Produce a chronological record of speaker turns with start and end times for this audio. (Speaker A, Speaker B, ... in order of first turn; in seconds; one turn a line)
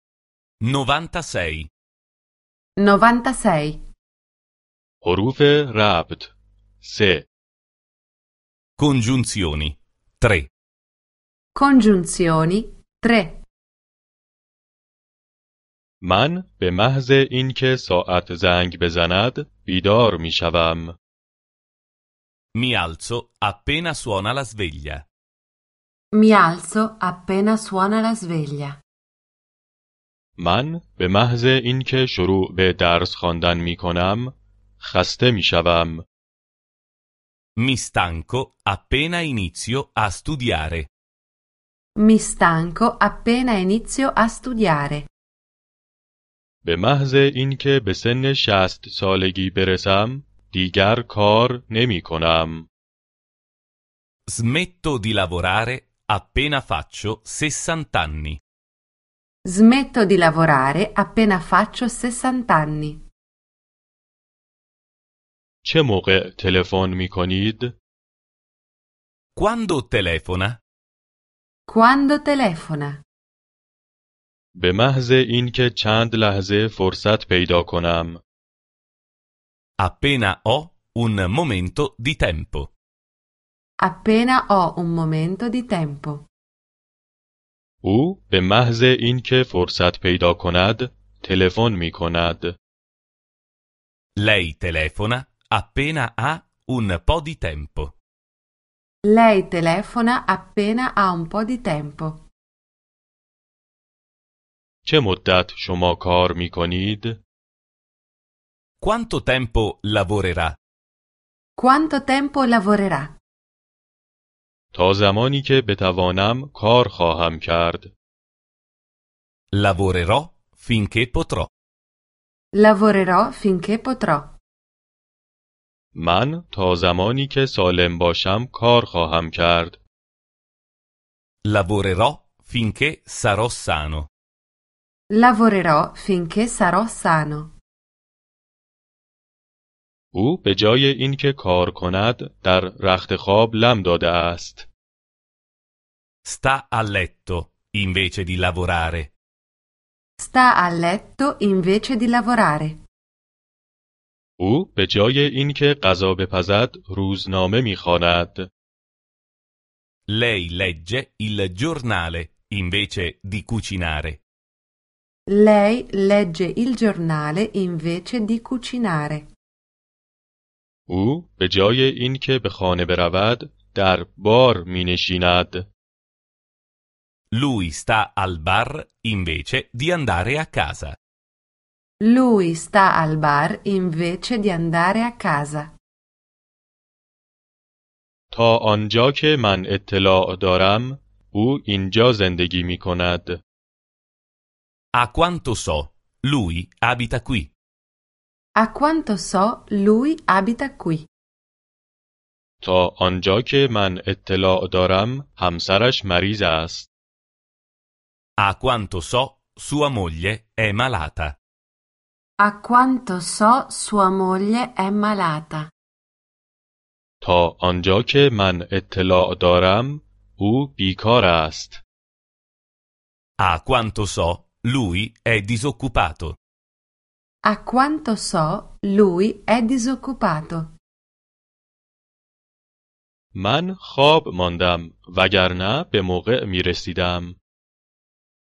Speaker A: 0.6-1.7
Speaker B: 2.8-3.9
Speaker C: 5.0-7.3
Speaker A: 8.8-10.5
Speaker B: 11.5-13.4
Speaker C: 16.0-21.0
Speaker A: 22.6-25.1
Speaker B: 26.1-28.8
Speaker C: 30.4-36.0
Speaker A: 37.6-40.9
Speaker B: 42.0-45.1
Speaker C: 46.6-52.7
Speaker A: 54.3-58.4
Speaker B: 59.5-63.1
Speaker C: 65.6-67.8
Speaker A: 69.4-70.6
Speaker B: 71.7-73.0
Speaker C: 74.6-78.2
Speaker A: 79.8-82.7
Speaker B: 83.8-86.3
Speaker C: 87.8-92.6
Speaker A: 94.2-98.0
Speaker B: 99.0-102.3
Speaker C: 104.8-107.2
Speaker A: 108.8-110.5
Speaker B: 111.6-113.2
Speaker C: 114.7-117.9
Speaker A: 119.5-121.5
Speaker B: 122.5-124.4
Speaker C: 125.9-129.8
Speaker A: 131.5-134.1
Speaker B: 135.1-137.6
Speaker C: 140.1-144.7
Speaker A: 146.2-149.1
Speaker B: 150.2-152.8
Speaker C: 154.4-158.5
Speaker A: 160.1-164.2
Speaker B: 165.3-169.3
Speaker C: 170.9-175.7
Speaker A: 177.3-181.0
Speaker B: 182.0-185.7
Speaker C: 188.3-193.4
Speaker A: 195.0-197.5
Speaker B: 198.6-201.1
Speaker C: 202.6-206.9
Speaker A: 208.4-211.4
Speaker B: 212.4-215.7
Speaker C: 217.2-221.8
Speaker A: 223.4-226.4
Speaker B: 227.4-230.7
Speaker C: 233.3-237.4